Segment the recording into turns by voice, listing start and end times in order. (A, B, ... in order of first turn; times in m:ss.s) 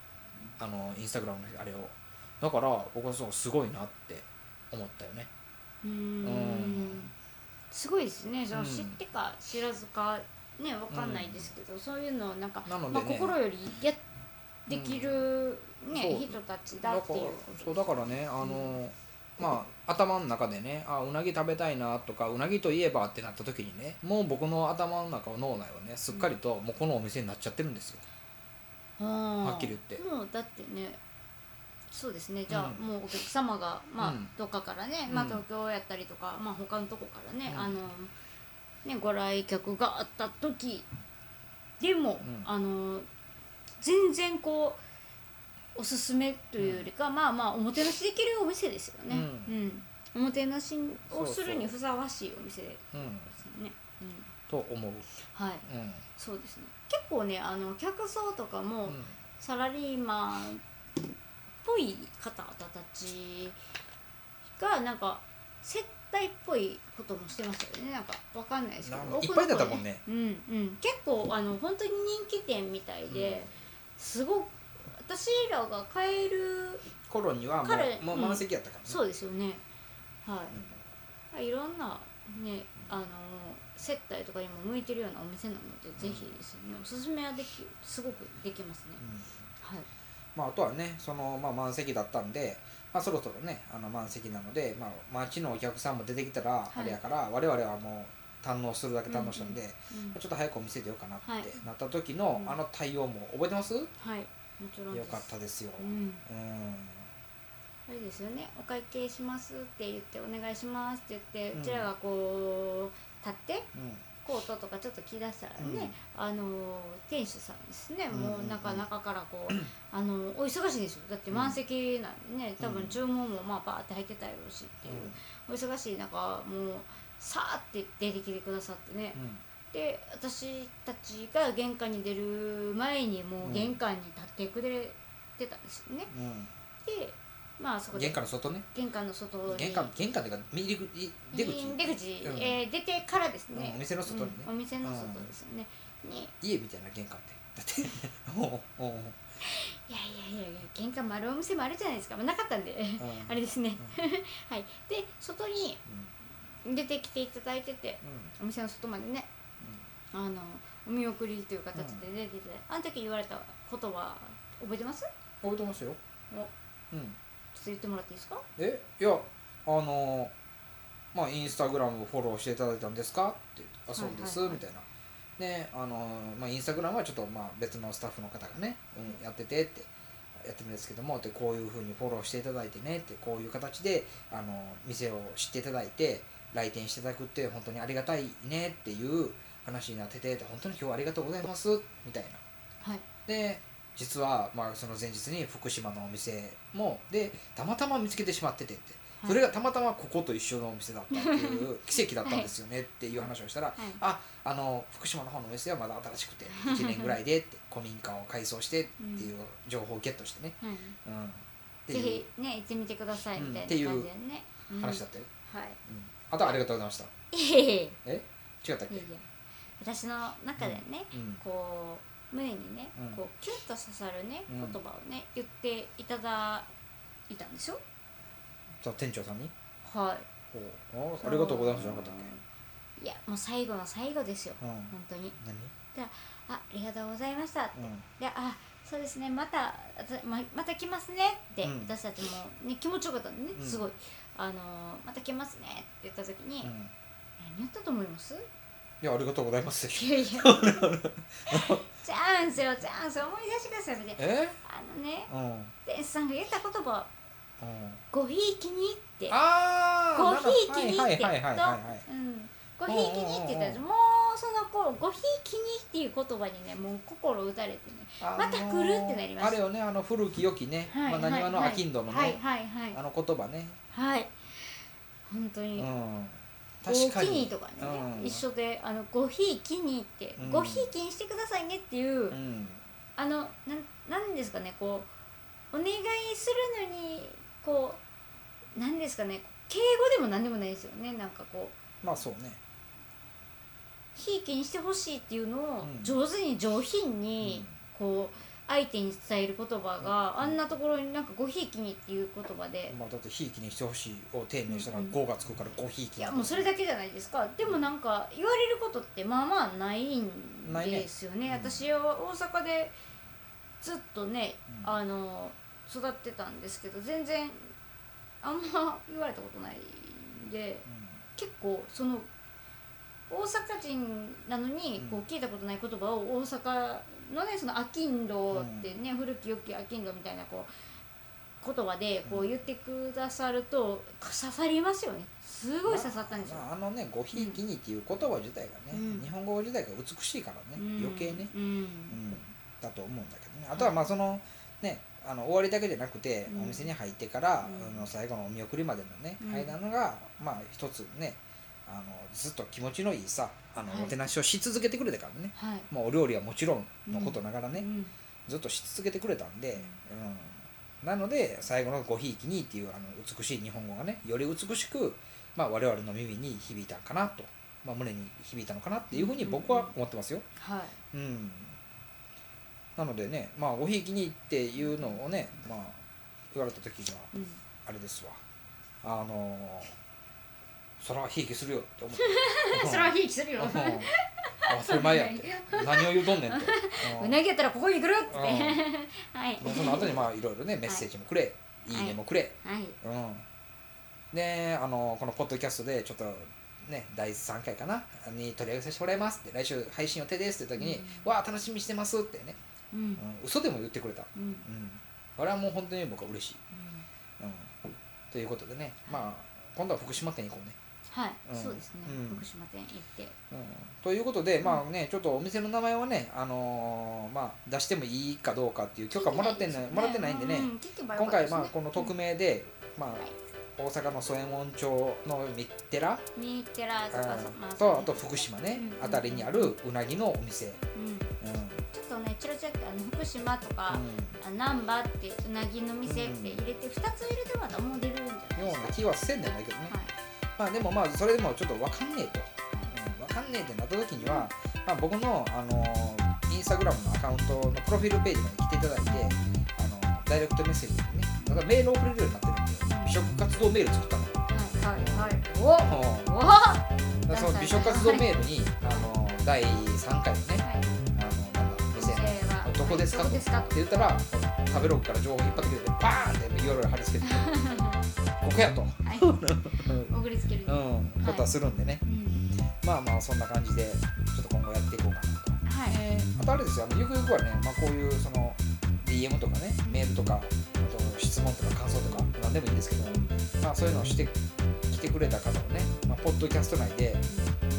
0:00.6-0:05.3 A
0:05.8-0:07.1 B
0:06.2-0:07.1 A
0:07.7-0:14.0 B
0:08.5-0:09.0 A
0:10.9-0:11.5 A
0:12.6-0:13.4 A
0:14.7-0:18.8 B
0:14.7-0:15.2 A
0:15.9-0:28.0 A
0:29.0-0:31.0 B
0:29.4-0:30.0 A
0:31.9-0:38.1 B
0:32.5-0:32.8 A
0:34.0-0:34.3 A
0:35.1-0:35.4 A
0:37.5-0:37.8 A
0:38.8-0:40.9 B
0:41.8-0:43.0 B
0:42.2-0:42.5 A
0:43.8-0:44.8 B
0:45.7-0:54.3 B
0:46.6-0:46.9 A
0:49.1-0:49.5 A
0:51.1-0:51.7 A
0:52.9-0:53.3 A
0:54.5-0:55.1 A
0:55.3-0:55.6 B
0:55.6-0:56.0 A
0:56.2-1:00.6 B
0:58.9-0:59.1 A
1:01.6-1:03.6 B
1:04.6-1:16.8 B
1:08.8-1:10.0 A
1:13.1-1:13.4 A
1:17.1-1:19.0 A
1:17.6-1:19.6 B
1:20.2-1:20.6 B
1:20.5-1:20.8 A
1:21.3-1:29.0 B
1:26.0-1:26.3 A
1:29.0-1:29.3 A
1:29.6-1:29.9 B
1:30.3-1:43.9 A
1:36.7-1:37.0 B
1:39.1-1:40.2 B
1:41.2-1:41.6 B
1:44.0-1:46.2 B
1:44.9-1:47.1 A
1:47.9-1:53.7 B
1:51.5-1:51.9 A
1:53.7-1:54.0 A
1:54.2-2:09.2 B
1:55.6-1:56.0 A
1:58.1-1:58.8 A
2:01.3-2:01.6 A
2:02.6-2:03.0 A
2:04.8-2:05.2 A
2:09.1-2:09.4 A
2:09.7-2:16.1 B
2:13.4-2:13.8 A
2:16.1-2:16.5 A
2:16.8-2:18.2 B
2:17.9-2:18.6 A
2:18.7-2:19.9 B
2:19.5-2:22.6 A
2:21.3-2:26.3 B
2:23.5-2:25.3 A
2:26.4-2:29.2 A
2:29.4-2:35.8 B
2:33.0-2:34.0 A
2:35.9-2:36.1 A
2:36.6-2:39.3 B
2:38.0-2:38.3 A
2:40.1-2:45.1 B
2:41.8-2:42.0 A
2:45.4-2:46.0 A
2:46.9-2:47.2 A
2:47.5-2:48.4 B
2:48.6-2:50.3 A
2:51.1-2:54.8 A
2:53.9-2:54.6 B
2:55.4-3:12.4 A
3:13.3-3:32.2 A
3:19.2-3:19.4 B
3:21.1-3:21.6 B
3:26.5-3:27.2 B
3:29.0-3:29.3 B
3:30.6-3:31.0 B
3:31.9-3:35.8 B
3:33.4-3:34.1 A
3:34.8-3:35.3 A
3:35.8-3:37.1 A
3:37.3-3:38.0 B
3:38.0-3:39.1 A
3:38.9-3:39.2 B
3:39.8-3:46.7 B
3:40.6-3:41.4 A
3:44.5-3:44.8 A
3:47.3-3:47.8 B
3:48.8-3:49.5 A
3:49.8-3:50.3 B
3:50.5-3:52.3 A
3:51.2-3:52.4 B
3:53.0-3:55.4 B
3:54.6-3:55.7 A
3:55.9-4:06.7 B
3:57.7-3:58.0 A
4:01.6-4:01.9 A
4:03.6-4:03.8 A
4:06.6-4:06.9 A
4:07.4-4:08.4 B
4:09.0-4:11.8 A
4:09.8-4:10.9 B
4:11.5-4:15.3 B
4:14.2-4:14.6 A
4:15.3-4:15.7 A
4:15.8-4:17.1 B
4:17.6-4:18.0 A
4:18.1-4:19.4 B
4:19.3-4:22.0 A
4:20.1-4:29.6 B
4:22.9-4:23.8 A
4:28.2-4:32.4 A
4:30.9-4:33.0 B
4:32.9-4:33.8 A
4:33.9-4:35.9 B
4:35.8-4:38.4 A
4:36.8-4:42.4 B
4:40.4-4:40.9 A
4:42.3-4:42.8 A
4:43.2-4:45.1 B
4:45.7-4:48.0 B
4:48.8-4:51.8 B
4:52.0-4:52.6 A
4:54.1-5:03.0 B
4:55.8-4:56.1 A
4:57.4-4:57.7 A
5:00.0-5:00.6 A
5:02.9-5:06.7 A
5:04.7-5:05.1 B
5:06.2-5:13.0 B
5:10.6-5:11.8 A
5:13.8-5:17.7 B
5:18.4-5:22.3 B
5:20.9-5:21.2 A
5:23.3-5:30.7 B
5:25.0-5:25.2 A
5:28.5-5:28.9 A
5:31.6-5:36.6 B
5:32.3-5:32.5 A
5:35.8-5:41.5 A
5:37.3-5:37.6 B
5:38.9-5:39.3 B
5:40.8-5:42.2 B
5:42.1-5:57.9 A
5:43.7-5:44.1 B
5:46.5-5:46.9 B
5:47.6-5:48.0 B
5:49.4-5:49.7 B
5:53.8-5:54.2 B
5:55.5-5:55.9 B
5:57.0-5:58.1 B
5:58.4-6:10.4 A
5:59.8-6:00.0 B
6:09.1-6:09.9 B
6:10.6-6:11.0 B
6:11.1-6:11.8 A
6:13.0-6:17.3 A
6:17.3-6:17.6 B
6:17.8-6:18.4 A
6:19.0-6:19.9 A
6:21.0-6:24.1 A
6:22.1-6:30.2 B
6:24.7-6:27.4 A
6:28.3-6:28.8 A
6:29.6-6:33.4 A
6:31.9-6:33.0 B
6:34.3-6:42.6 A
6:40.8-6:41.3 B
6:42.9-6:43.2 B
6:43.2-6:46.6 A
6:44.3-6:44.6 B
6:46.7-6:47.0 B
6:47.4-6:47.7 A
6:48.3-6:50.8 A
6:51.1-6:53.4 B
6:51.5-6:52.4 A
6:53.5-7:03.2 A
6:59.1-7:02.1 B
7:03.8-7:06.2 A
7:06.4-7:08.2 B
7:07.1-7:10.8 A
7:08.7-7:09.8 B
7:10.9-7:11.3 B
7:11.4-7:11.8 A
7:11.9-7:19.0 B
7:13.9-7:14.4 A
7:16.0-7:16.6 A
7:18.6-7:19.9 A
7:20.6-7:36.3 A
7:24.2-7:24.4 B
7:29.0-7:29.3 B
7:32.8-7:33.1 B
7:34.5-7:38.3 B
7:37.2-7:47.5 A
7:40.6-7:40.9 B
7:41.9-7:43.8 B
7:47.2-7:48.1 B
7:48.4-7:50.1 A
7:49.0-7:51.5 B
7:50.7-7:52.0 A
7:52.0-7:52.5 B
7:52.8-8:04.3 A
7:55.6-7:56.0 B
7:59.8-8:00.2 B
8:03.0-8:03.5 B
8:04.9-8:07.2 A
8:07.3-8:07.6 B